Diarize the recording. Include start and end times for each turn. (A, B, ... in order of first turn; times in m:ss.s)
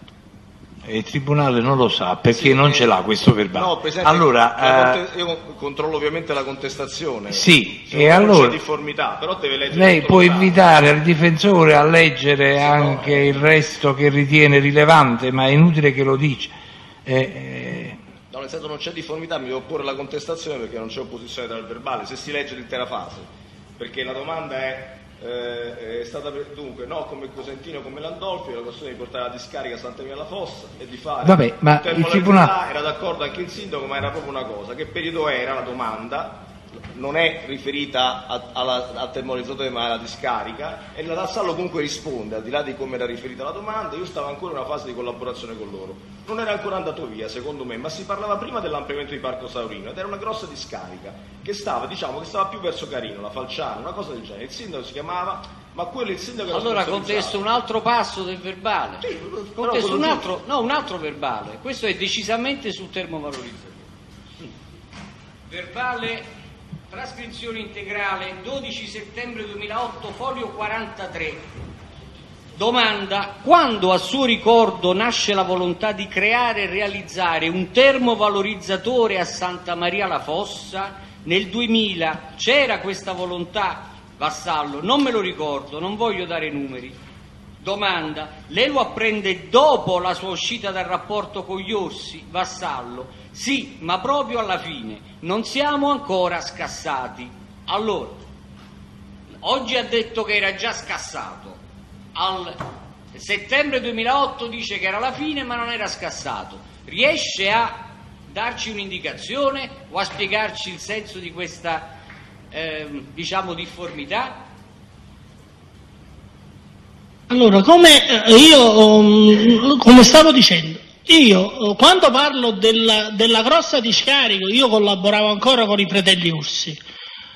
0:00.8-0:05.0 A
0:02.3-0:10.7 B
0:07.3-0:08.6 A
0:09.7-0:18.0 A
0:12.6-0:13.5 B
0:18.3-0:57.4 B
0:31.2-0:32.5 A
0:56.5-1:03.9 C
0:59.0-1:00.3 B
1:05.5-1:06.3 C
1:06.9-1:11.5 C
1:12.5-1:27.0 C
1:27.6-1:38.2 C
1:39.4-1:41.6 C
1:42.1-1:52.0 C
1:52.5-1:54.5 C
1:57.3-2:06.8 D